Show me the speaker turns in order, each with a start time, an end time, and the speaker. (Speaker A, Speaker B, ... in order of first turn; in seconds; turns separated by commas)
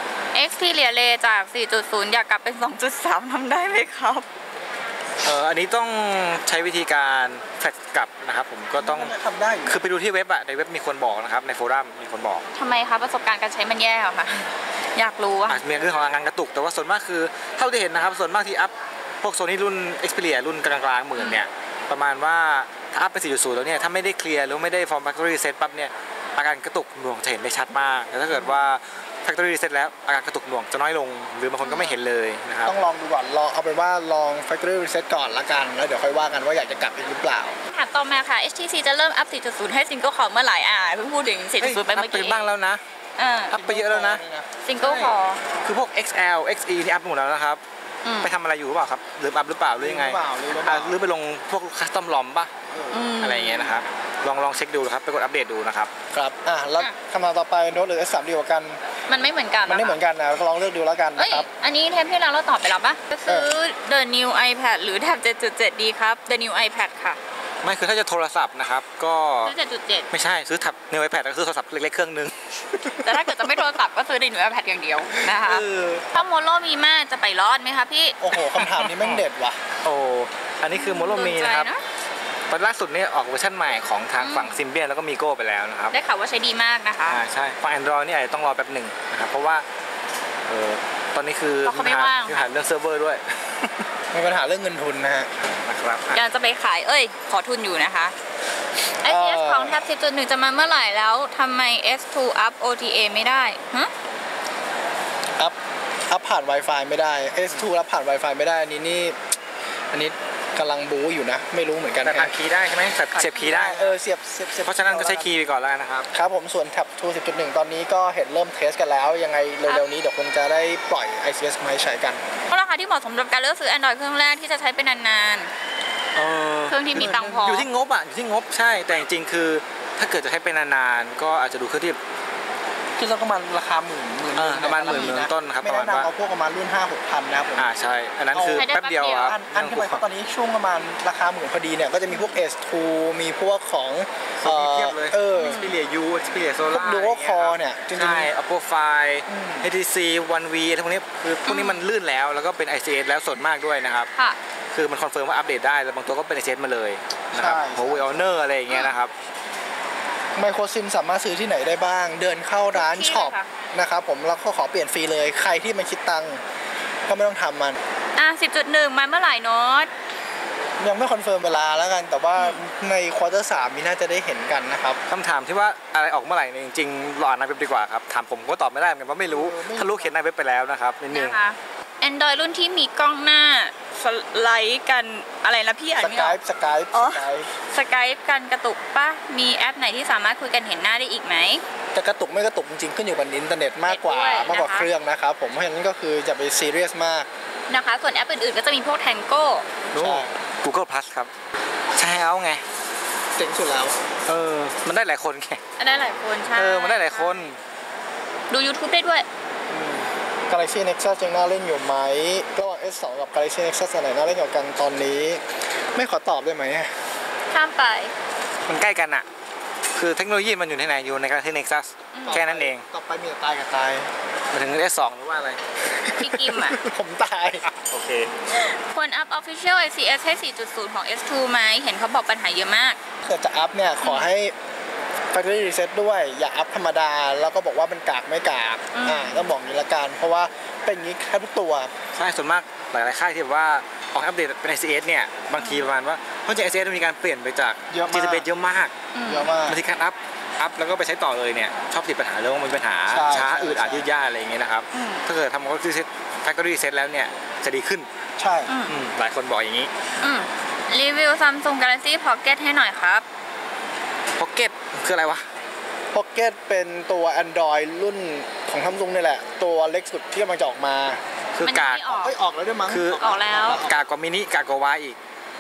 Speaker A: 0.3-4.3, Speaker B: 5.2-9.1, Speaker C: 8.8-9.8, Speaker B: 9.7-12.4, Speaker A: 12.6-15.6, Speaker B: 15.5-32.7, Speaker A: 21.2-21.4, Speaker A: 31.6-32.0, Speaker C: 32.7-37.6, Speaker A: 37.7-42.5, Speaker B: 41.6-42.8, Speaker A: 43.2-43.5, Speaker B: 43.5-44.2, Speaker C: 43.5-45.1, Speaker A: 44.6-45.4, Speaker B: 45.6-47.6, Speaker A: 48.0-48.3, Speaker B: 48.2-52.5, Speaker C: 49.8-51.0, Speaker C: 52.7-53.0, Speaker A: 52.9-53.8, Speaker B: 53.2-55.9, Speaker C: 56.1-58.8, Speaker A: 59.1-60.0, Speaker C: 59.7-61.5, Speaker A: 61.2-67.2, Speaker B: 67.6-69.5, Speaker A: 69.5-70.1, Speaker B: 70.1-73.6, Speaker A: 73.0-78.6, Speaker C: 75.5-76.0, Speaker B: 75.8-76.0, Speaker C: 78.2-79.6, Speaker B: 79.0-79.2, Speaker B: 79.8-81.7, Speaker A: 80.7-81.8, Speaker B: 82.5-85.9, Speaker A: 84.2-84.6, Speaker A: 85.9-87.2, Speaker B: 87.1-89.7, Speaker B: 90.5-93.2, Speaker A: 91.6-92.4, Speaker C: 94.1-95.3, Speaker B: 95.4-96.2, Speaker A: 96.1-98.1, Speaker A: 99.0-103.9, Speaker C: 99.0-99.8, Speaker C: 106.1-109.2, Speaker C: 109.9-112.3, Speaker B: 112.0-114.0, Speaker C: 113.1-115.4, Speaker B: 114.7-116.1, Speaker C: 116.1-122.2, Speaker A: 122.5-125.5, Speaker B: 126.2-132.0, Speaker A: 126.7-127.7, Speaker C: 127.0-127.4, Speaker C: 133.0-137.7, Speaker B: 134.4-136.1, Speaker B: 137.6-140.0, Speaker C: 138.3-138.7, Speaker A: 138.5-139.3, Speaker C: 139.2-145.6, Speaker A: 142.1-142.4, Speaker B: 144.4-154.1, Speaker A: 145.3-145.8, Speaker C: 146.7-148.3, Speaker C: 149.3-149.7, Speaker A: 151.5-151.8, Speaker B: 154.7-159.1, Speaker C: 157.3-158.3, Speaker C: 160.4-166.4, Speaker A: 162.7-163.5, Speaker C: 167.1-167.8, Speaker A: 168.2-169.9, Speaker C: 170.8-175.0, Speaker B: 175.1-181.4, Speaker C: 179.3-180.1, Speaker A: 181.1-186.4, Speaker C: 186.0-187.5, Speaker A: 186.9-191.6, Speaker C: 191.9-197.3, Speaker A: 193.9-194.9, Speaker A: 197.7-199.7, Speaker B: 199.9-201.3, Speaker C: 200.0-200.3, Speaker B: 202.0-202.6, Speaker C: 203.4-204.0, Speaker B: 204.3-205.6, Speaker A: 205.8-207.5, Speaker B: 206.5-207.6, Speaker A: 208.5-209.3, Speaker C: 209.7-215.4, Speaker C: 215.9-216.9, Speaker A: 217.5-218.1, Speaker B: 218.7-219.3, Speaker B: 220.0-222.8, Speaker A: 222.1-222.4, Speaker C: 222.2-224.1, Speaker B: 224.5-225.6, Speaker C: 226.1-227.6, Speaker A: 226.2-226.8, Speaker B: 227.7-228.3, Speaker A: 228.5-233.0, Speaker C: 233.3-234.5, Speaker A: 234.0-234.3, Speaker C: 235.3-241.9, Speaker A: 238.9-239.5, Speaker B: 242.2-248.9, Speaker A: 245.6-245.8, Speaker C: 247.9-248.4, Speaker A: 249.1-249.5, Speaker C: 249.2-249.8, Speaker B: 249.7-258.1, Speaker C: 253.1-254.1, Speaker A: 254.9-255.2, Speaker C: 258.4-258.7, Speaker A: 258.7-258.9, Speaker B: 258.9-259.9, Speaker A: 260.2-263.2, Speaker B: 264.4-265.4, Speaker C: 266.1-271.2, Speaker B: 271.5-272.1, Speaker A: 271.6-272.4, Speaker C: 272.1-274.0, Speaker B: 272.9-275.2, Speaker A: 273.1-273.8